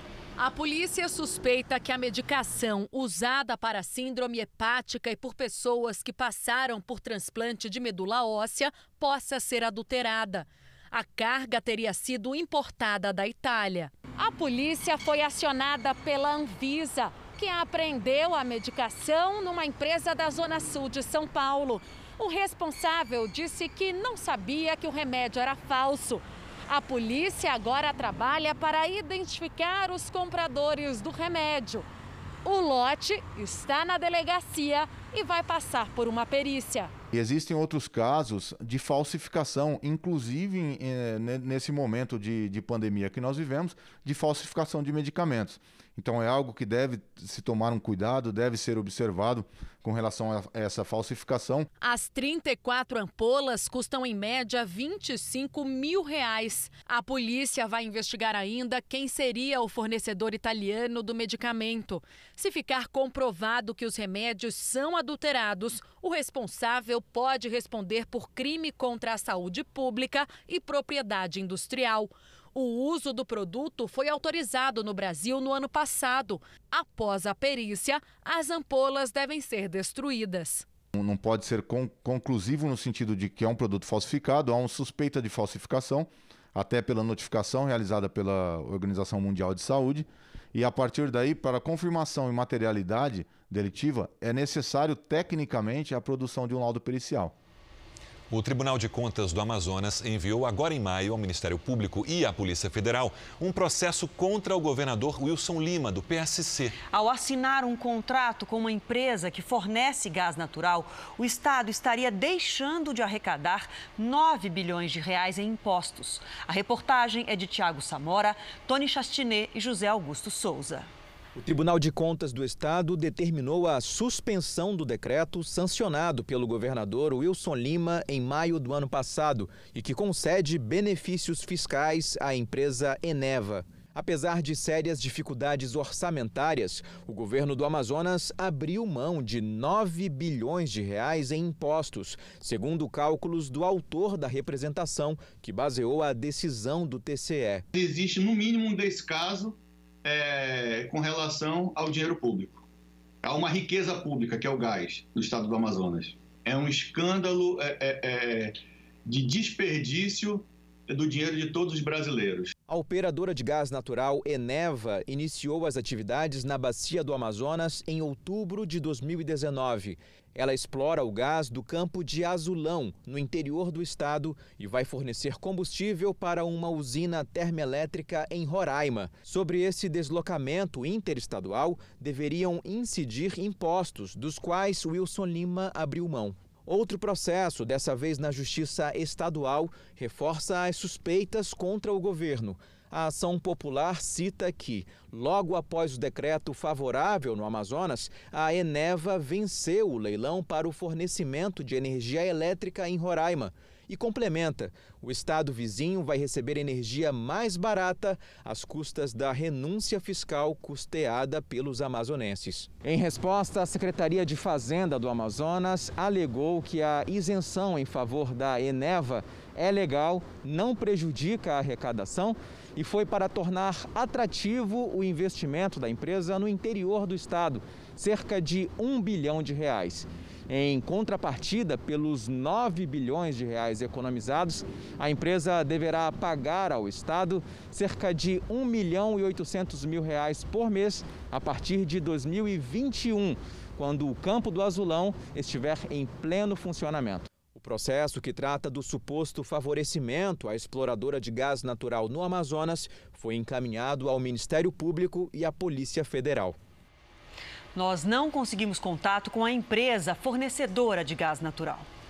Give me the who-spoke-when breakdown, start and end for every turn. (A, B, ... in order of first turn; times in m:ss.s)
0:00.4-0:31.8 A
0:32.4-0:36.9 A
0:37.1-0:51.7 B
0:51.8-1:20.6 A
1:20.9-1:37.3 B
1:38.3-1:46.8 C
1:46.9-2:00.9 D
2:01.4-2:27.6 E
2:27.8-2:29.5 F
2:30.0-2:32.6 F
2:33.5-2:38.5 F
2:39.5-2:40.4 F
2:41.1-2:41.7 F
2:42.7-4:16.6 E
4:17.7-4:21.8 D